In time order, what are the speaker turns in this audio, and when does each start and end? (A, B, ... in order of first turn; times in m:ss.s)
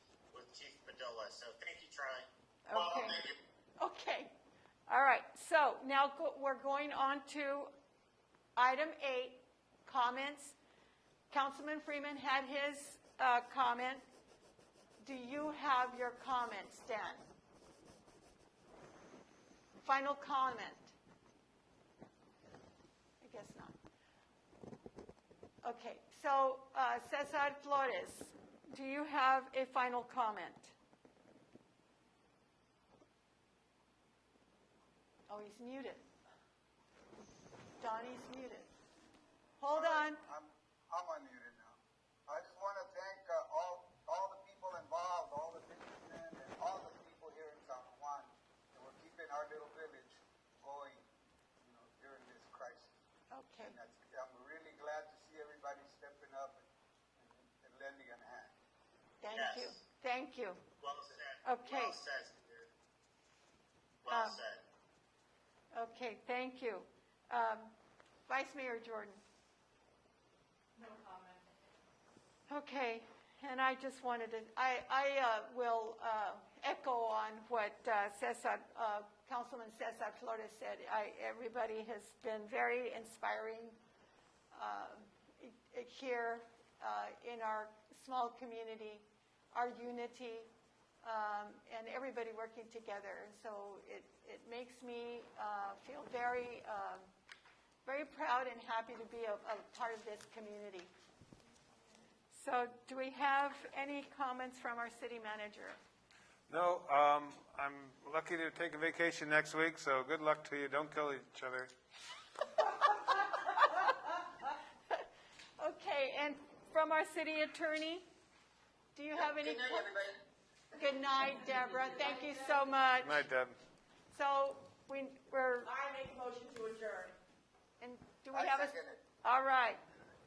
0:00.3-0:03.3 A
0:02.7-0:03.3 B
0:03.8-0:04.3 B
0:04.9-0:07.7 B
0:08.6-0:10.6 B
0:11.3-0:14.0 B
0:15.0-0:17.2 B
0:19.8-0:20.9 B
0:23.2-0:23.8 B
0:25.6-0:30.7 B
0:35.3-0:36.0 B
0:37.8-0:38.7 B
0:39.6-0:40.2 B
0:39.7-0:51.1 C
0:51.6-0:53.0 C
0:53.3-0:53.8 B
0:53.6-0:56.6 C
0:57.2-0:58.5 C
0:59.2-1:00.6 B
0:59.3-0:59.8 A
1:00.8-1:02.7 A
1:01.4-1:02.0 B
1:04.0-1:04.6 A
1:04.1-1:04.4 B
1:05.7-1:07.7 B
1:08.3-1:09.2 B
1:10.8-1:11.4 D
1:12.5-1:23.8 B
1:24.5-1:30.5 B
1:31.0-1:37.0 B
1:37.8-1:40.9 B
1:42.3-1:45.8 B
1:46.5-1:51.7 E
1:53.4-1:53.8 B
1:55.6-1:58.0 B
1:58.9-1:59.9 B
1:59.2-2:00.2 C
2:00.8-2:03.2 B
2:01.6-2:02.7 D
2:03.0-2:03.6 E
2:04.1-2:05.7 B
2:05.6-2:07.2 D
2:07.8-2:09.8 B
2:08.3-2:09.0 C